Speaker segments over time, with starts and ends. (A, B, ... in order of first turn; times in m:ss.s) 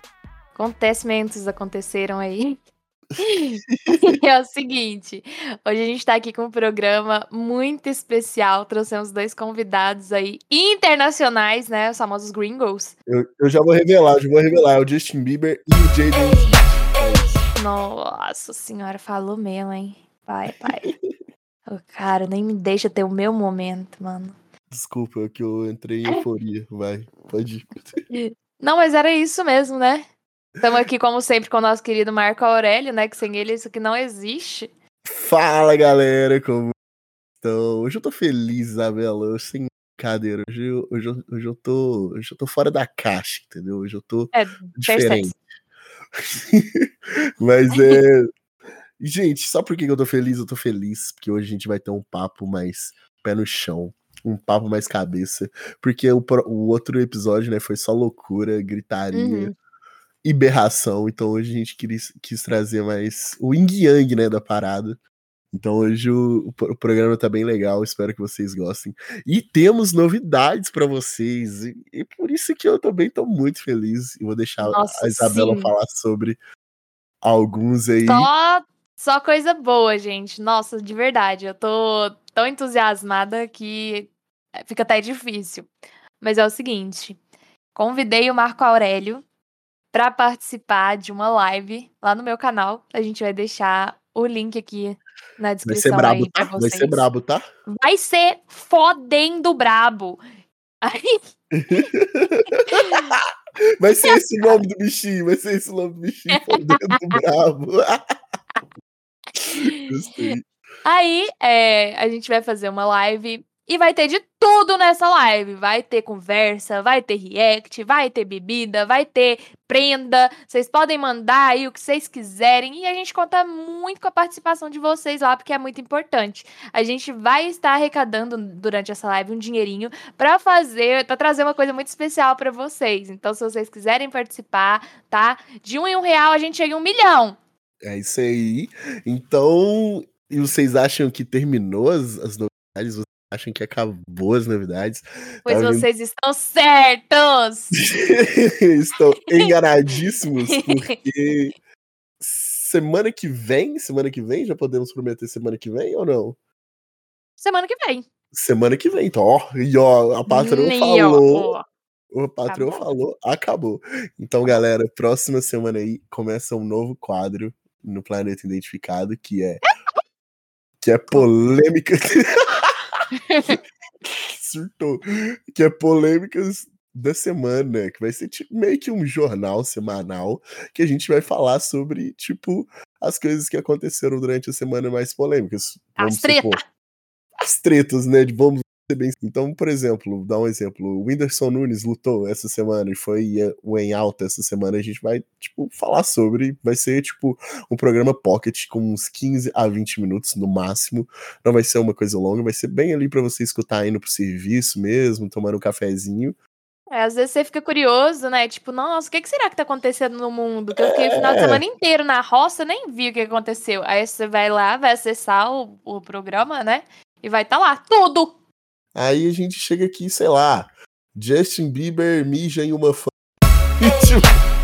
0:00.6-0:02.6 A
0:03.2-0:12.9 A
0:03.7-0:04.2 B
0:13.1-0:17.4 B
0:17.5-0:20.9 A
0:20.7-0:21.0 B
0:21.7-0:24.4 A
0:24.7-0:27.9 B
0:28.1-0:30.0 A
0:30.6-0:34.7 A
0:35.1-0:36.7 B
0:37.4-0:45.4 B
0:44.3-0:45.3 A
0:46.4-0:46.9 B
0:47.4-0:48.3 B
0:47.7-0:48.0 A
0:49.0-0:59.5 B
0:59.1-0:59.5 A
1:00.2-1:05.0 B
1:05.5-1:16.4 B
1:14.6-1:15.7 A
1:17.2-1:18.3 B
1:18.0-1:25.7 A
1:26.2-1:27.2 A
1:27.8-1:29.2 A
1:29.9-1:37.1 A
1:35.7-1:37.4 B
1:37.7-1:40.2 A
1:40.8-1:41.2 A
1:41.5-1:43.0 B
1:42.7-1:43.2 A
1:43.8-1:48.0 B
1:44.1-1:44.6 A
1:46.4-1:47.2 A
1:49.5-1:50.4 B
1:49.5-1:50.3 A
1:50.8-2:17.4 A
2:17.8-2:25.9 B
2:25.5-2:27.7 A
2:27.9-2:31.6 B
2:30.5-2:31.0 A
2:32.2-2:36.4 B
2:37.4-2:38.0 A
2:38.3-2:41.5 B
2:40.3-2:41.6 A
2:42.1-2:49.6 B
2:42.5-2:42.8 A
2:50.8-2:52.7 B
2:53.2-2:53.6 A
2:54.0-3:06.6 B
3:06.0-3:06.6 A
3:07.4-3:26.4 B
3:26.9-3:38.3 A
3:30.8-3:31.6 B
3:39.0-3:43.1 B
3:43.8-3:44.4 B